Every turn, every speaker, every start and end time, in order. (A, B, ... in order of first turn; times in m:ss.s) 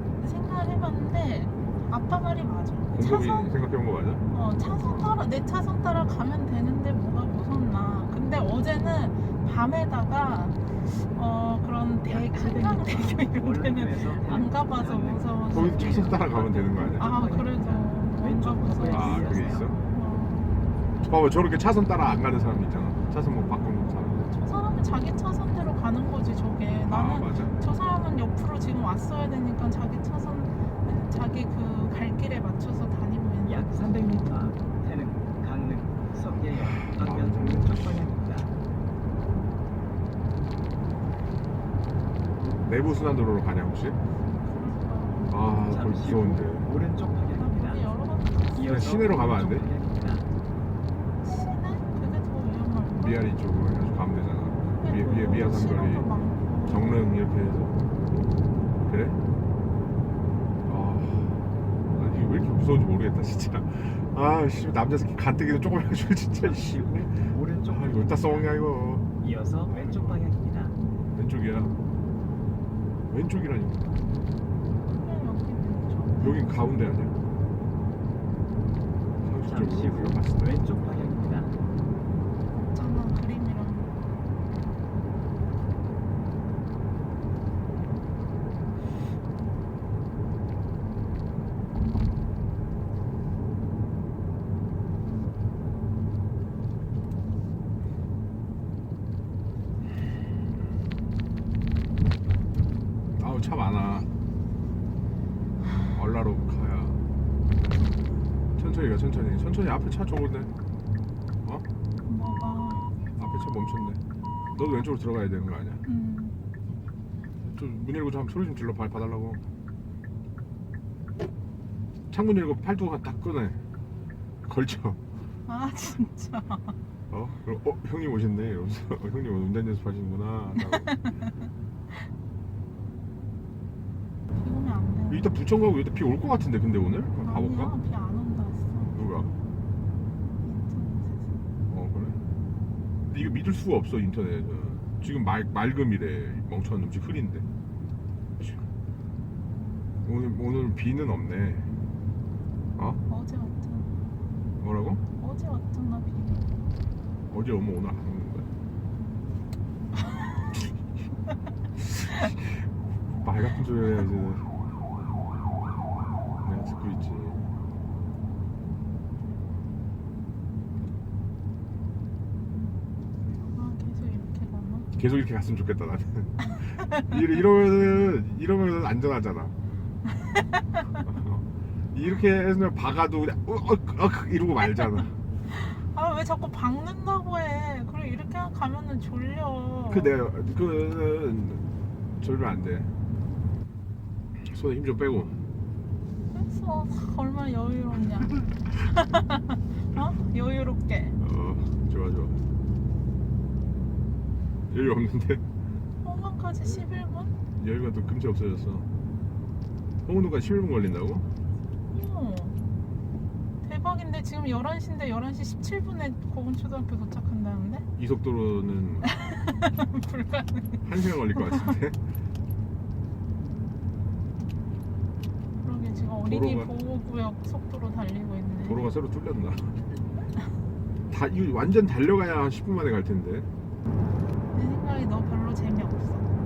0:00.2-0:03.5 A
0:02.9-0:05.1 B
0:04.3-0:16.2 A
0:12.0-0:19.8 C
0:15.5-0:17.1 B
0:17.0-0:20.5 A
0:18.9-0:19.8 B
0:21.0-0:24.4 B
0:24.4-0:33.7 A
0:26.9-0:27.6 B
0:33.4-0:38.5 C
0:36.8-0:38.1 B
0:42.6-0:44.0 B
0:44.4-0:45.3 A
0:45.3-0:46.7 B
0:45.7-0:47.9 C
0:47.4-0:48.8 A
0:48.5-0:50.3 C
0:48.6-0:49.7 B
0:51.2-0:53.3 A
0:53.0-0:56.1 B
0:54.8-0:56.9 A
0:56.6-0:57.8 B
0:58.9-0:59.2 B
1:00.6-1:09.2 B
1:06.4-1:08.6 C
1:09.2-1:10.7 C
1:09.7-1:10.2 B
1:11.1-1:11.8 B
1:13.1-1:13.8 B
1:15.0-1:16.5 A
1:16.2-1:17.2 B
1:19.2-1:20.6 B
1:19.4-1:21.6 C
1:22.7-1:24.0 A
1:43.2-1:44.1 B
1:45.9-1:47.0 B
1:48.6-1:50.5 B
1:52.1-1:52.9 A
1:53.2-1:54.0 B
1:54.5-1:55.8 B
1:55.8-1:56.4 A
1:57.4-1:59.4 B
2:02.1-2:03.6 B
2:04.4-2:05.0 B
2:05.5-2:06.8 A
2:07.1-2:10.9 B
2:10.6-2:11.3 A
2:14.4-2:15.3 A
2:15.1-2:17.7 B
2:17.2-2:18.9 A
2:18.9-2:19.3 B
2:20.4-2:21.4 A
2:21.7-2:22.2 B
2:23.1-2:27.5 B
2:30.0-2:31.7 B
2:33.1-2:33.9 A
2:34.6-2:35.0 B
2:35.2-2:36.5 A
2:37.3-2:38.5 B
2:41.8-2:42.7 B
2:43.2-2:44.5 B
2:46.4-2:47.5 B
2:53.5-2:54.9 A
2:55.0-2:59.5 B
2:56.5-2:56.9 A
3:00.2-3:00.9 A
3:01.0-3:05.1 B
3:05.5-3:10.1 A
3:09.9-3:11.6 B
3:12.2-3:13.0 B
3:14.4-3:15.4 B
3:16.3-3:21.2 A
3:21.2-3:22.4 B
3:24.7-3:25.4 B
3:26.0-3:27.3 A
3:27.6-3:28.9 B
3:30.0-3:31.3 B
3:31.9-3:32.6 A
3:33.6-3:37.9 A
3:38.0-3:39.1 B
3:39.0-3:41.8 A
3:40.8-3:42.0 B
3:45.6-3:48.9 A
3:46.2-3:46.7 B
3:48.6-3:49.9 B
3:51.1-3:53.5 B
3:54.5-3:56.3 A